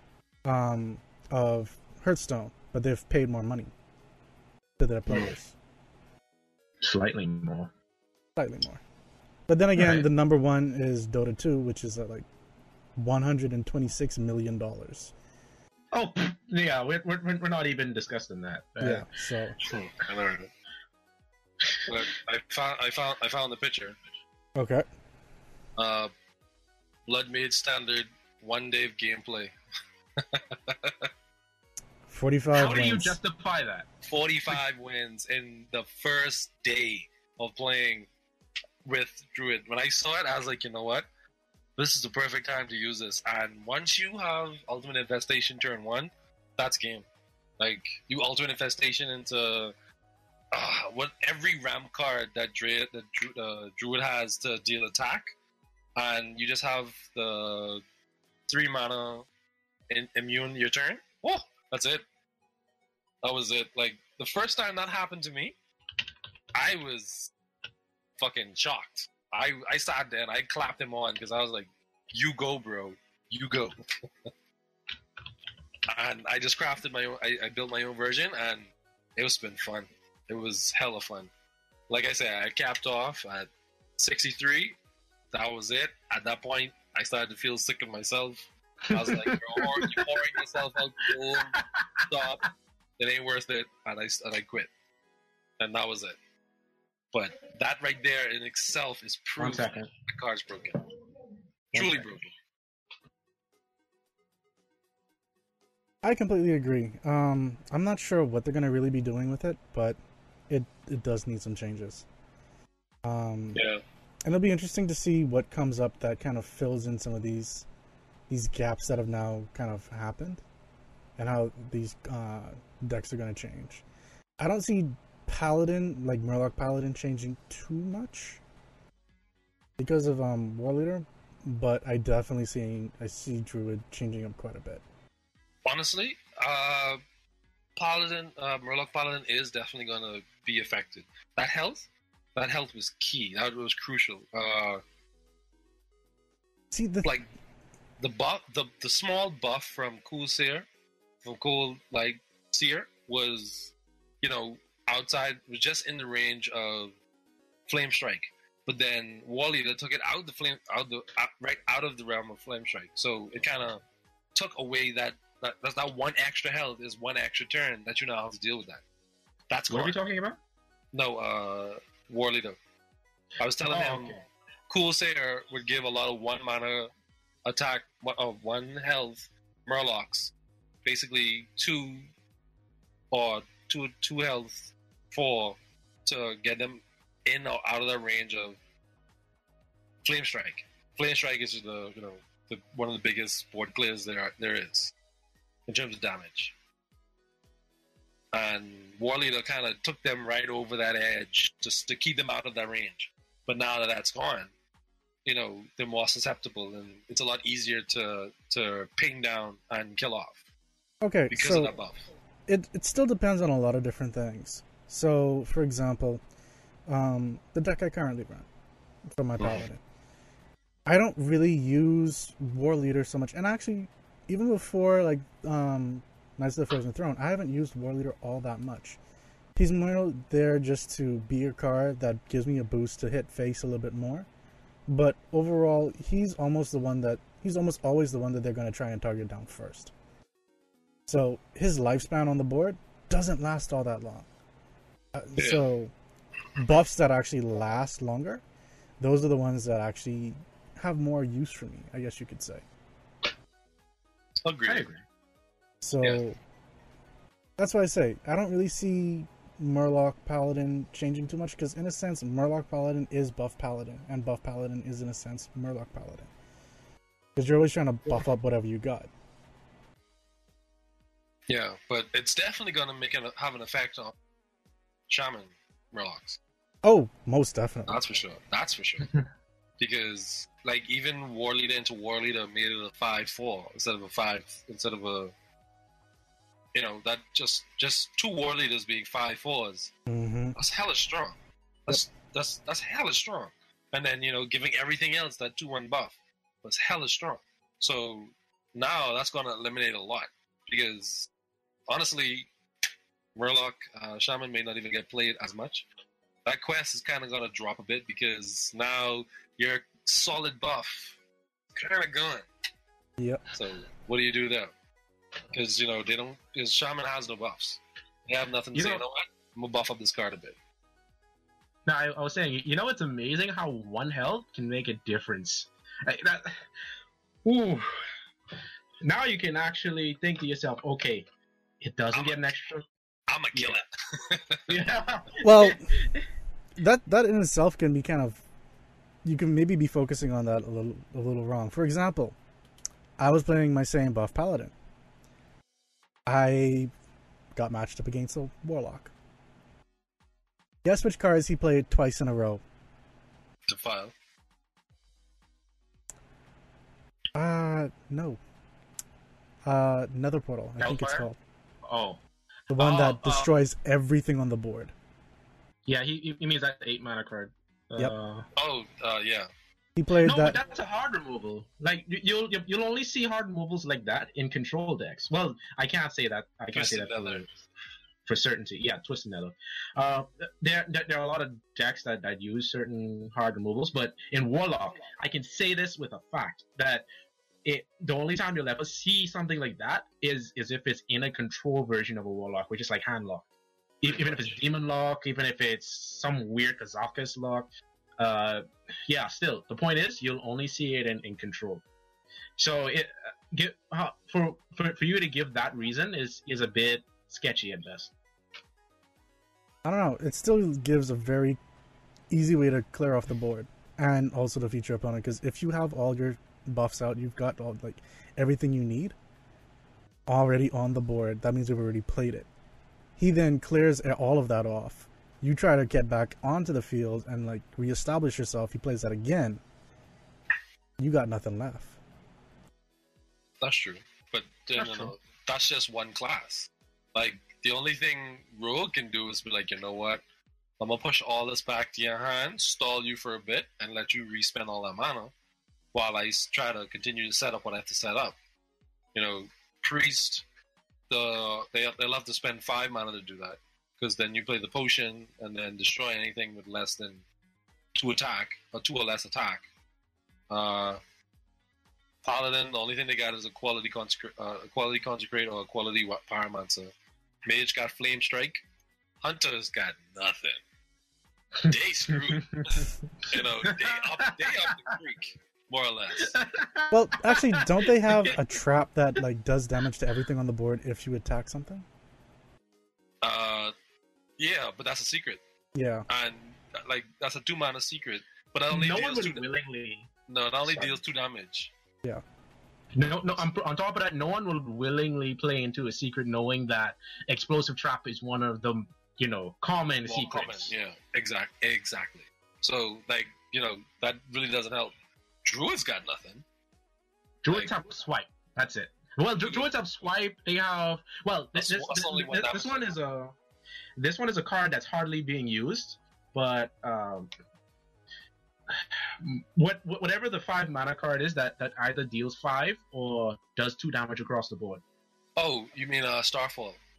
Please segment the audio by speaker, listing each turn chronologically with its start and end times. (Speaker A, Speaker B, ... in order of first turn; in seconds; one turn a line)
Speaker A: 0.5-3.7
Speaker A: 4.8-5.5
Speaker B: 5.1-5.3
Speaker B: 6.8-7.7
Speaker A: 8.4-8.8
Speaker A: 9.5-12.3
Speaker B: 9.8-10.1
Speaker A: 13.0-15.1
Speaker B: 15.9-19.1
Speaker A: 18.8-19.5
Speaker C: 19.6-20.5
Speaker B: 21.6-21.9
Speaker C: 21.9-24.0
Speaker A: 24.6-24.9
Speaker C: 25.8-26.1
Speaker C: 27.1-29.5
Speaker C: 30.3-31.1
Speaker A: 32.1-33.2
Speaker B: 32.5-33.9
Speaker C: 34.0-38.1
Speaker C: 38.9-41.1
Speaker C: 41.8-47.1
Speaker C: 47.6-49.7
Speaker C: 50.5-55.3
Speaker C: 56.0-57.8
Speaker C: 58.5-59.3
Speaker C: 59.9-62.0
Speaker C: 63.2-65.6
Speaker C: 66.5-67.3
Speaker C: 68.2-73.8
Speaker C: 75.9-81.3
Speaker C: 81.9-84.8
Speaker C: 85.3-92.5
Speaker B: 88.9-90.1
Speaker B: 91.5-92.1
Speaker C: 93.0-94.7
Speaker C: 95.6-96.2
Speaker C: 97.1-100.8
Speaker B: 99.4-99.9
Speaker B: 101.7-102.1
Speaker C: 101.7-102.3
Speaker A: 106.0-110.0
Speaker A: 110.5-112.1
Speaker A: 113.0-113.6
Speaker C: 113.5-113.8
Speaker A: 114.2-117.7
Speaker A: 118.3-120.4
Speaker A: 121.2-123.8
Speaker A: 124.4-128.4
Speaker A: 129.8-134.8
Speaker C: 135.7-137.0
Speaker C: 137.8-141.8
Speaker C: 142.4-144.8
Speaker A: 146.7-147.1
Speaker C: 148.0-150.7
Speaker C: 151.2-156.9
Speaker C: 157.7-163.8
Speaker C: 164.3-168.8
Speaker C: 169.5-170.0
Speaker B: 169.7-170.4
Speaker C: 170.9-172.6
Speaker C: 173.4-174.2
Speaker B: 173.7-174.2
Speaker C: 174.7-176.9
Speaker C: 177.5-180.3
Speaker C: 180.8-182.1
Speaker C: 183.1-188.6
Speaker C: 190.0-194.9
Speaker C: 195.7-196.5
Speaker C: 198.3-204.5
Speaker C: 205.2-210.4
Speaker A: 211.0-211.8
Speaker C: 211.3-212.1
Speaker A: 212.5-216.2
Speaker A: 216.9-218.5
Speaker A: 219.1-219.8
Speaker C: 219.4-219.7
Speaker A: 220.9-229.0
Speaker A: 229.6-234.3
Speaker A: 234.9-239.9
Speaker A: 241.1-244.3
Speaker A: 245.1-245.9
Speaker C: 245.4-245.6
Speaker A: 246.6-248.4
Speaker A: 249.0-252.7
Speaker C: 254.4-254.9
Speaker B: 254.7-255.0
Speaker A: 255.8-256.4
Speaker A: 257.6-266.3
Speaker A: 267.4-269.1
Speaker C: 271.5-274.1
Speaker C: 275.1-276.4
Speaker A: 276.8-278.0
Speaker C: 277.9-279.1
Speaker C: 279.8-285.3
Speaker C: 286.7-289.9
Speaker A: 290.1-290.6
Speaker C: 290.6-301.3
Speaker C: 301.9-302.5
Speaker C: 303.4-305.9
Speaker C: 306.4-311.2
Speaker C: 311.8-312.5
Speaker C: 313.5-314.7
Speaker C: 315.5-320.6
Speaker B: 318.7-319.0
Speaker B: 321.9-326.6
Speaker B: 327.4-328.0
Speaker B: 329.0-331.3
Speaker B: 331.8-332.9
Speaker C: 332.1-332.4
Speaker C: 333.3-334.7
Speaker B: 333.6-333.8
Speaker B: 334.7-336.2
Speaker A: 335.4-335.8
Speaker A: 336.8-338.4
Speaker A: 339.2-342.4
Speaker A: 343.2-344.7
Speaker A: 346.3-346.9
Speaker A: 347.6-349.1
Speaker A: 350.8-352.6
Speaker C: 353.7-354.1
Speaker A: 357.3-358.4
Speaker A: 359.6-361.4
Speaker B: 360.8-361.3
Speaker B: 361.9-362.2
Speaker A: 362.7-364.9
Speaker B: 362.8-363.5
Speaker B: 365.9-368.5
Speaker C: 368.6-369.5
Speaker A: 370.0-370.6
Speaker B: 370.2-377.5
Speaker C: 376.7-377.5
Speaker B: 378.3-387.1
Speaker B: 387.6-393.4
Speaker B: 394.0-397.7
Speaker C: 394.1-394.6
Speaker B: 398.2-401.9
Speaker B: 402.6-408.1
Speaker A: 409.8-411.6
Speaker A: 412.3-419.1
Speaker A: 420.3-422.5
Speaker A: 423.2-429.6
Speaker A: 431.0-432.0
Speaker C: 433.6-440.2
Speaker B: 434.8-435.1
Speaker C: 440.8-445.3
Speaker C: 445.9-448.4
Speaker C: 449.1-450.4
Speaker C: 451.1-457.2
Speaker C: 458.0-459.6
Speaker C: 460.5-461.0
Speaker C: 462.2-466.9
Speaker C: 467.5-468.6
Speaker C: 469.2-470.6
Speaker B: 471.6-475.0
Speaker C: 471.7-476.4
Speaker B: 476.2-478.4
Speaker A: 476.9-481.9
Speaker C: 483.2-483.7
Speaker C: 484.4-485.4
Speaker A: 485.8-486.1
Speaker C: 486.1-489.4
Speaker B: 488.7-490.1
Speaker C: 490.3-491.7
Speaker B: 490.7-491.0
Speaker B: 493.0-500.7
Speaker C: 500.1-504.9
Speaker C: 505.4-506.4
Speaker B: 507.4-513.4
Speaker C: 509.4-509.7
Speaker C: 511.6-513.0
Speaker B: 514.0-517.3
Speaker B: 518.7-524.8
Speaker C: 525.4-526.8